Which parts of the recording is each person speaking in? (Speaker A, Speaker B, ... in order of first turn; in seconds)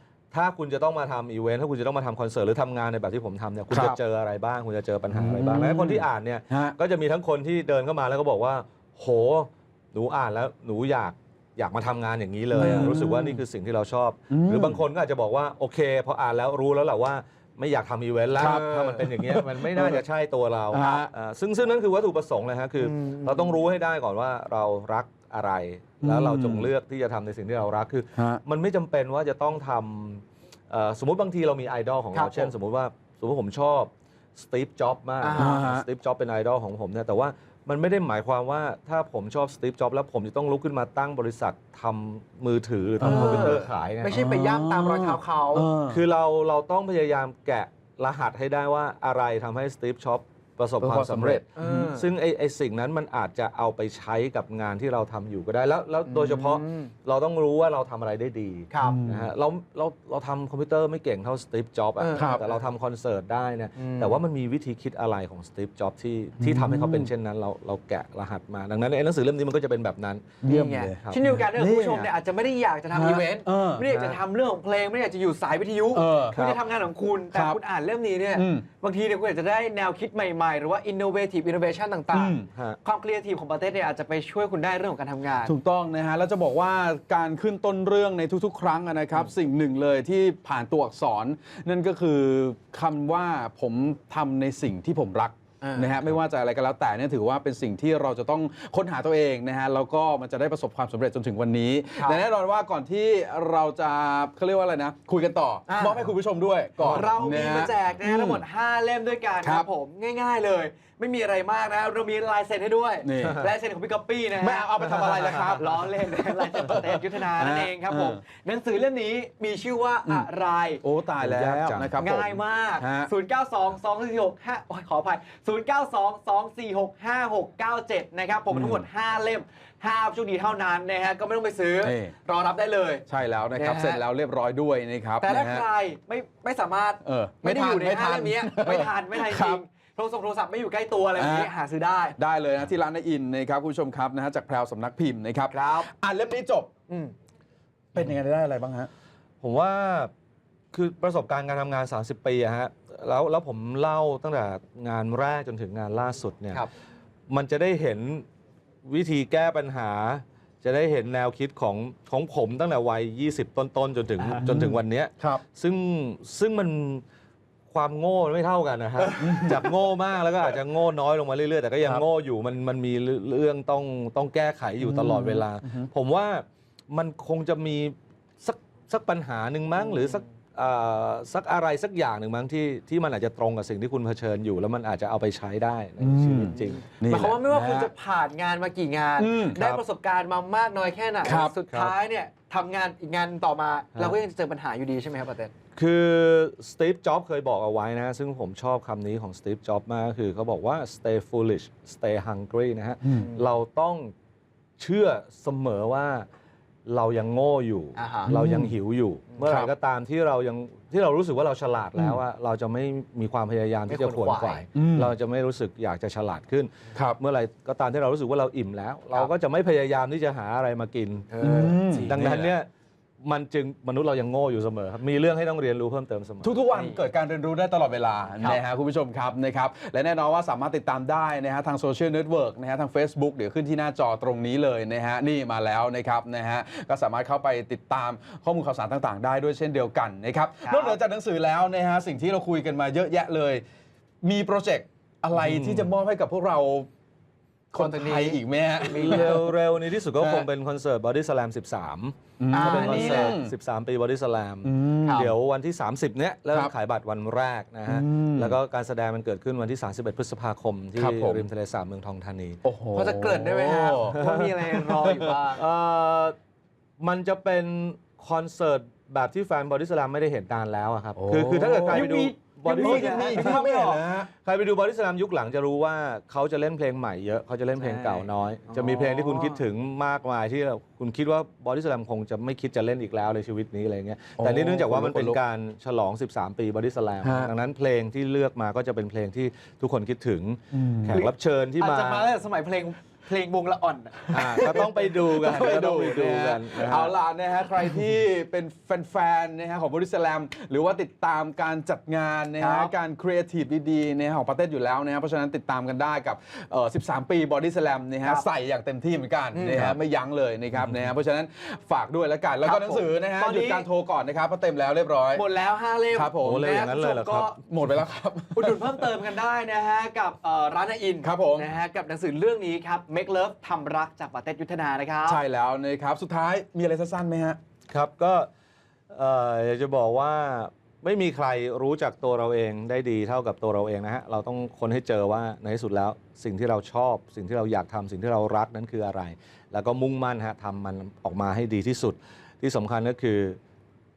Speaker A: 0.3-44.1, 45.9-70.4, 73.8-74.2, 76.3-76.6, 82.5-82.8, 114.8-115.5, 121.2-122.0, 149.4-150.1, 150.7-156.7, 157.3-158.3, 158.8-167.0, 167.7-186.9, 189.6-189.8, 191.7-191.9, 195.8-204.1, 204.8-206.3, 206.9-221.3, 222.1-222.7, 223.2-226.6, 245.3-245.9, 248.9-262.6, 264.1-266.4, 267.0-292.3, 294.3-297.1, 316.4-317.6, 327.9-328.5, 329.1-343.6
Speaker B: 3.7-4.0, 5.1-6.8, 12.5-13.4, 14.3-14.8, 18.4-20.0, 20.7-21.1, 26.0-26.7, 28.2-28.4, 35.4-35.9, 43.0-43.6, 44.1-46.0, 50.8-51.9, 58.8-59.3, 62.1-62.5, 66.4-67.1, 70.4-72.1, 72.9-73.9, 75.9-76.4, 77.3-77.6, 78.3-78.7, 82.1-82.5, 85.5-108.5, 109.4-109.7, 113.0-113.5, 114.4-118.2, 120.8-123.1, 128.5-128.9, 131.8-132.2, 133.1-135.7, 137.0-139.6, 141.2-141.5, 142.2-146.7, 147.9-148.9, 164.4-165.4, 169.1-169.8, 174.8-175.9, 186.0-187.9, 189.2-189.6, 191.2-191.6, 208.3-208.8, 209.5-209.7, 214.7-215.1, 216.9-217.2, 221.4-222.5, 226.4-243.6, 244.2-246.9, 247.7-249.5, 250.2-250.5, 252.4-253.6, 254.6-255.2, 257.9-258.6, 261.0-261.5, 262.6-265.3, 271.1-272.1, 272.7-274.3, 284.4-285.4, 287.2-287.5, 290.7-291.3, 294.2-315.4, 316.1-316.8, 317.5-319.2, 321.2-321.7, 325.2-327.6
Speaker C: 18.6-19.1, 22.8-23.6, 32.1-32.5, 35.2-35.6, 43.0-45.7, 51.6-52.1, 56.1-56.9, 58.7-59.0, 62.0-62.6, 63.8-64.2, 70.5-85.5, 95.6-95.9, 102.0-102.2, 105.7-106.1, 106.8-120.8, 122.0-133.0, 133.6-134.0, 135.2-142.2, 145.5-145.9, 186.9-195.5, 208.0-208.3, 213.9-214.7, 221.3-222.2, 226.7-227.0, 240.6-241.0, 247.8-249.4, 252.5-253.4, 255.0-255.4, 262.9-265.6, 271.7-274.1, 277.8-279.6, 291.1-294.3, 302.6-302.9, 308.2-308.5, 309.5-310.0, 312.6-313.9, 315.3-317.6, 318.6-325.4